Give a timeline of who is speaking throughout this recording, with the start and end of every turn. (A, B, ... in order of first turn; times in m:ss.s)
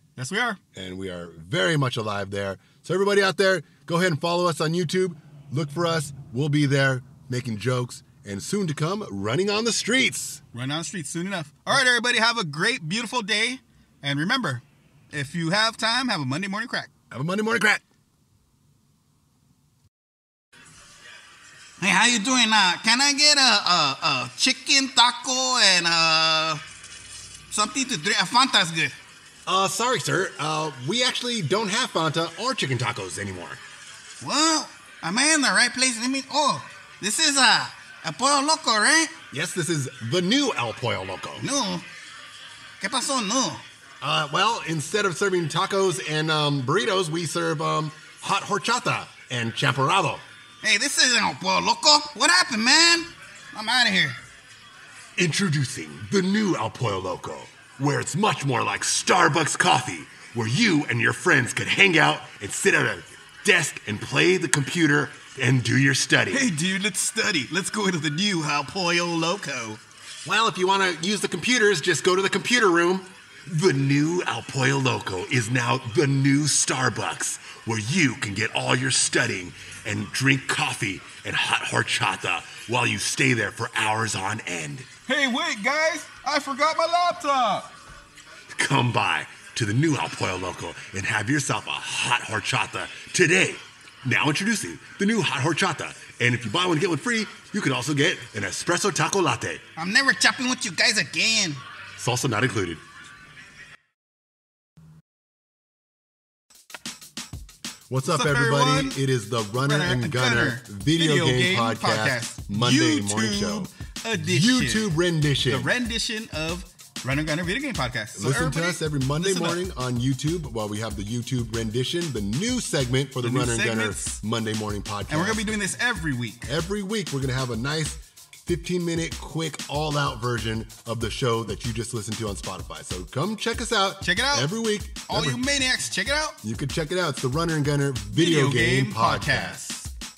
0:00.2-0:00.6 A
0:00.7-0:10.4 B
0:10.5-0:16.9 A
0:17.1-0:17.8 B
0:21.8-0:26.6 A
0:27.5-0:28.9 A
0:29.4-0:33.6 B
0:34.2-0:39.1 A
0:39.3-0:41.4 B
0:41.4-0:41.8 A
0:42.8-0:43.6 A
0:44.0-0:50.2 B
0:50.6-0:54.2 A
0:55.2-1:06.5 B
1:06.3-1:09.8 A
1:10.2-1:24.9 B
1:25.1-1:27.7 A
1:28.5-1:39.6 B
1:39.8-1:41.6 A
1:42.0-1:42.8 B
1:47.9-1:55.7 B
1:48.1-1:49.0 A
1:49.6-1:59.6 A
1:58.1-2:05.6 B
2:03.2-2:04.2 A
2:05.1-2:06.5 A
2:06.4-2:15.4 B
2:14.0-2:14.5 A
2:15.1-2:16.4 A
2:16.4-2:19.6 B
2:18.1-2:19.9 A